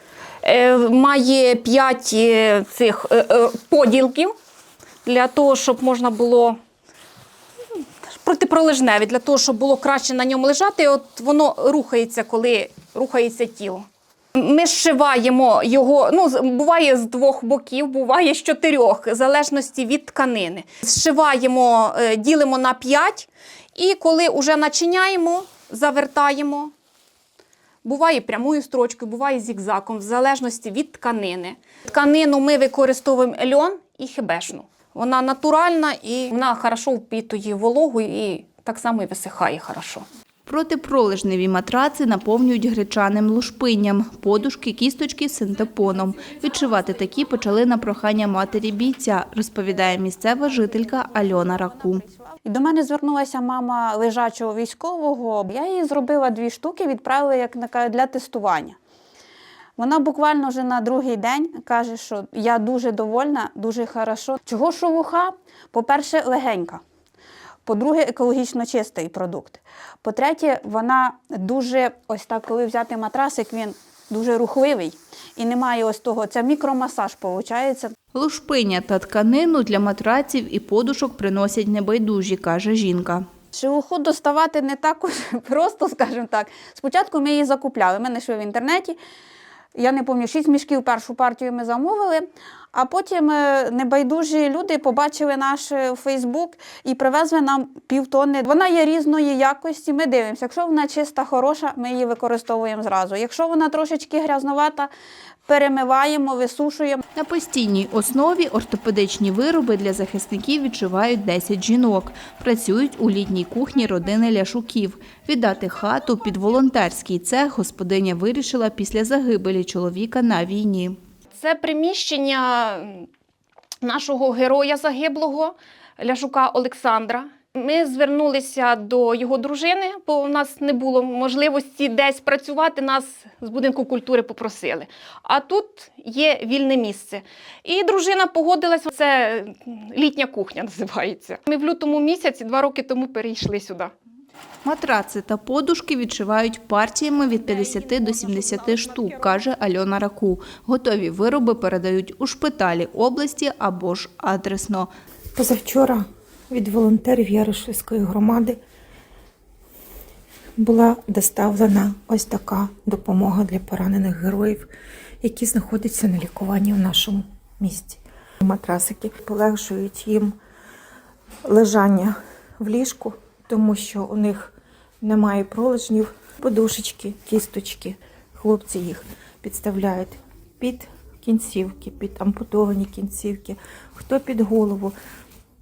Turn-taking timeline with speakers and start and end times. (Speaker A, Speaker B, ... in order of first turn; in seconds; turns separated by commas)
Speaker A: 0.4-4.3, Speaker A: 5.0-6.6, Speaker A: 8.1-26.7, Speaker A: 27.8-40.0, Speaker B: 40.5-52.0, Speaker C: 52.4-58.8, Speaker C: 59.8-66.8, Speaker C: 67.7-77.9, Speaker B: 78.1-83.2, Speaker C: 83.5-89.0, Speaker C: 89.8-104.9, Speaker C: 105.5-107.0, Speaker B: 107.2-121.0, Speaker A: 121.4-123.1, Speaker A: 123.8-143.9, Speaker B: 144.7-154.9, Speaker D: 155.4-158.6, Speaker D: 160.6-164.7, Speaker D: 165.2-170.4, Speaker D: 171.4-184.9